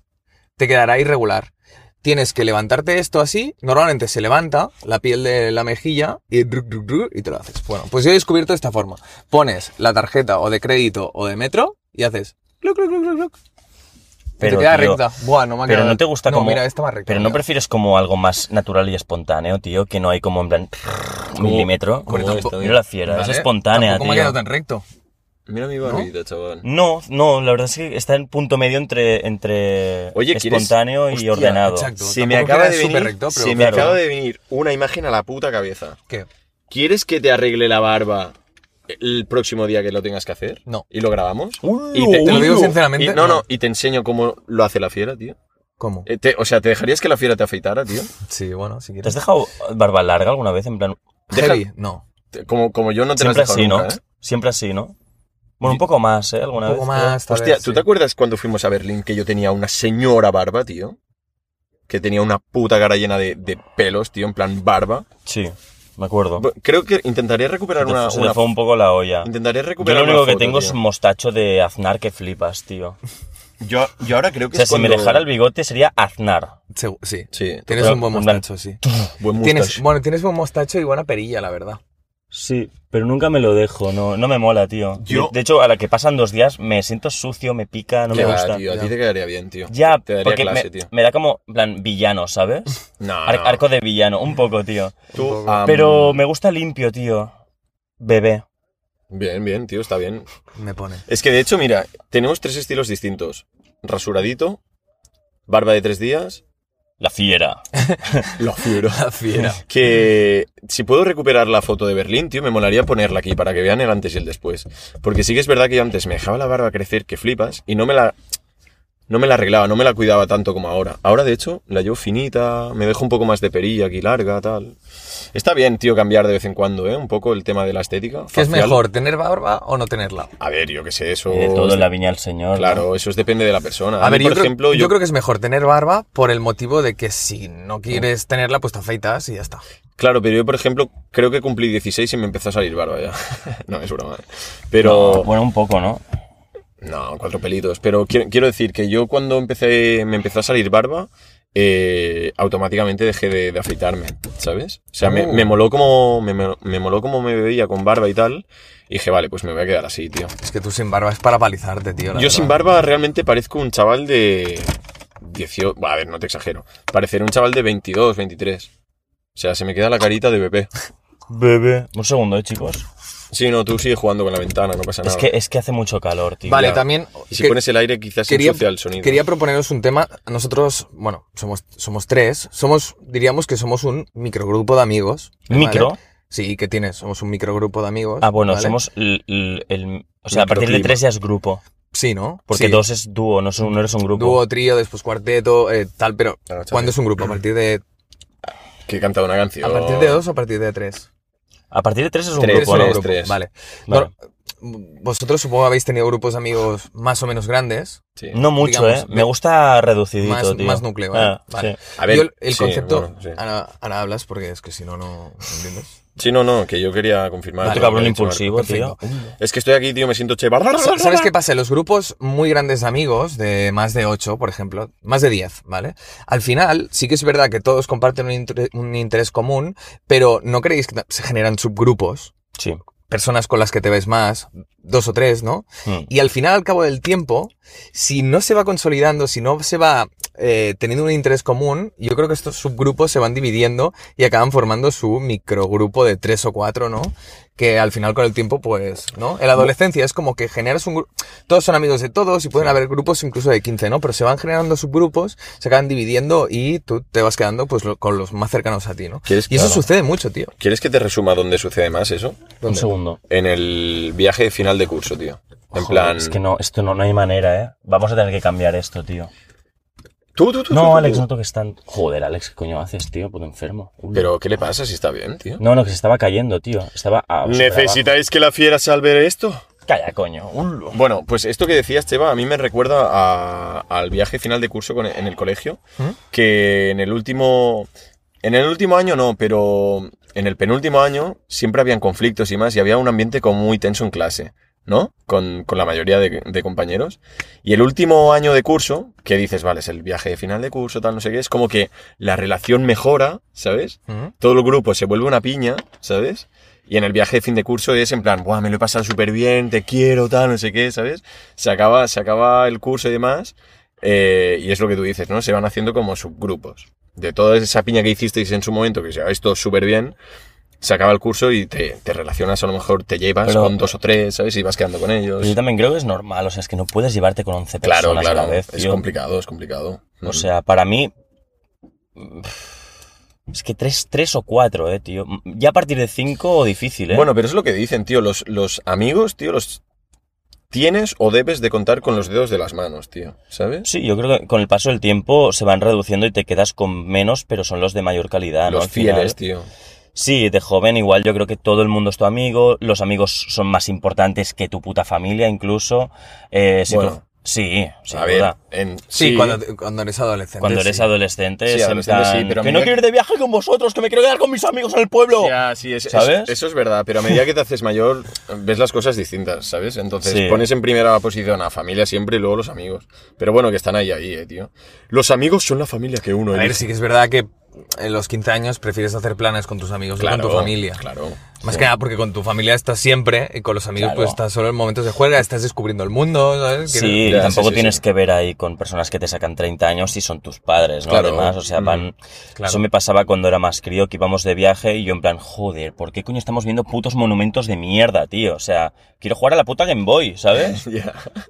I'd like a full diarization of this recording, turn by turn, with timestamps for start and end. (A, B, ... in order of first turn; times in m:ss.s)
0:00.6-0:01.5 A
0:02.0-0:13.3 A
0:14.4-0:17.4 A
0:14.4-0:15.0 B
0:15.6-0:24.4 B
0:21.4-0:22.8 C
0:22.1-0:24.8 A
0:25.5-0:26.6 C
0:25.8-0:26.1 A
0:26.6-0:31.9 B
0:30.1-0:36.0 C
0:31.4-0:34.0 A
0:33.5-0:33.9 B
0:36.7-0:38.3 C
0:38.9-0:45.4 C
0:41.6-0:42.7 B
0:42.0-0:43.4 A
0:45.8-0:46.1 A
0:46.0-0:48.1 C
0:48.3-0:49.2 A
0:49.0-0:51.0 B
0:51.3-0:52.0 A
0:51.3-0:51.6 C
0:52.3-0:54.0 C
0:53.2-0:54.9 B
0:55.6-0:57.2 B
0:56.6-0:57.8 A
0:57.2-1:01.0 C
1:01.9-1:05.1 C
1:05.2-1:06.4 B
1:06.4-1:08.5 C
1:07.8-1:13.0 B
1:09.2-1:10.8 C
1:13.6-1:15.2 C
1:14.5-1:16.5 B
1:16.7-1:18.8 A
1:17.3-1:18.0 C
1:17.7-1:19.1 B
1:19.2-1:19.8 C
1:19.4-1:21.8 A
1:22.3-1:28.6 B
1:25.0-1:25.4 C
1:28.1-1:30.9 C
1:28.1-1:28.9 A
1:29.7-1:35.0 B
1:33.0-1:33.6 C
1:35.1-1:35.6 A
1:35.1-1:36.2 C
1:35.6-1:37.3 B
1:38.0-1:38.4 B
1:39.1-1:40.2 C
1:40.6-1:41.0 A
1:41.1-1:44.6 C
1:45.5-1:46.4 C
1:47.0-1:48.2 B
1:47.8-1:48.3 A
1:48.4-1:49.0 C
1:48.8-1:49.6 A
1:49.6-1:58.2 C
1:59.1-2:04.8 C
2:05.3-2:08.8 C
2:08.3-2:10.3 A
2:10.4-2:11.9 C
2:11.3-2:12.8 B
2:12.5-2:15.0 C
2:14.0-2:19.6 A
2:20.0-2:25.3 C
2:24.8-2:26.0 B
2:26.8-2:40.3 C
2:35.0-2:35.5 A
2:40.4-2:42.6 A
2:42.1-2:48.7 C
2:49.3-2:50.7 C
2:51.3-2:52.8 B
2:53.3-2:55.3 C
2:55.0-2:56.8 B
2:56.4-2:57.6 A
2:57.3-2:59.2 C
2:58.3-3:08.8 A
3:05.5-3:06.0 B
3:08.2-3:11.6 B
3:10.3-3:11.0 C
3:11.9-3:12.8 A
3:12.5-3:14.4 B
3:14.1-3:17.8 A
3:16.5-3:16.9 C
3:18.9-3:20.2 C
3:19.6-3:21.1 A
3:21.7-3:23.0 B
3:22.4-3:23.4 C
3:22.4-3:28.0 A
3:28.3-3:31.8 B
3:28.5-3:29.3 A
3:30.2-3:36.0 A
3:32.0-3:33.4 C
3:36.2-3:38.5 C
3:37.6-3:39.3 A
3:37.6-3:39.0 B
3:39.4-3:41.3 C
3:40.8-3:52.3 A
3:53.1-4:20.5 A
4:19.3-4:19.8 C
4:20.6-4:22.5 C
4:22.6-4:22.9 A
4:22.6-4:23.2 B
4:23.3-4:26.4 C
4:25.7-4:29.3 B
4:30.3-4:31.2 C
4:30.7-4:34.3 B
4:34.1-4:35.6 C
4:35.6-4:38.1 B
4:37.4-4:39.6 C
4:39.9-4:41.0 B
4:40.9-4:45.8 C
4:46.3-4:47.9 C
4:48.4-5:20.2 C
5:20.8-5:25.6 C
5:23.4-5:23.9 B
5:25.4-5:29.0 B
5:27.8-5:30.5 C
5:30.2-5:31.1 B
5:32.2-5:32.7 B
5:33.5-5:37.3 B
5:37.1-5:39.8 C
5:40.7-5:43.9 C
5:43.8-5:49.4 B
5:48.6-5:49.7 C
5:50.1-5:58.5 B
5:56.9-5:57.2 C
5:58.1-5:59.6 C
5:59.1-6:01.1 A
6:00.6-6:05.5 B
6:01.7-6:03.0 C
6:05.3-6:16.8 C
6:06.1-6:06.6 B
6:10.2-6:10.7 B
6:16.5-6:21.0 A
6:20.2-6:21.9 C
6:21.6-6:27.6 A
6:24.0-6:24.4 B
6:26.9-6:40.8 B
6:27.2-6:28.0 C
6:31.1-6:32.1 C
6:32.6-6:32.8 A
6:40.5-6:41.3 C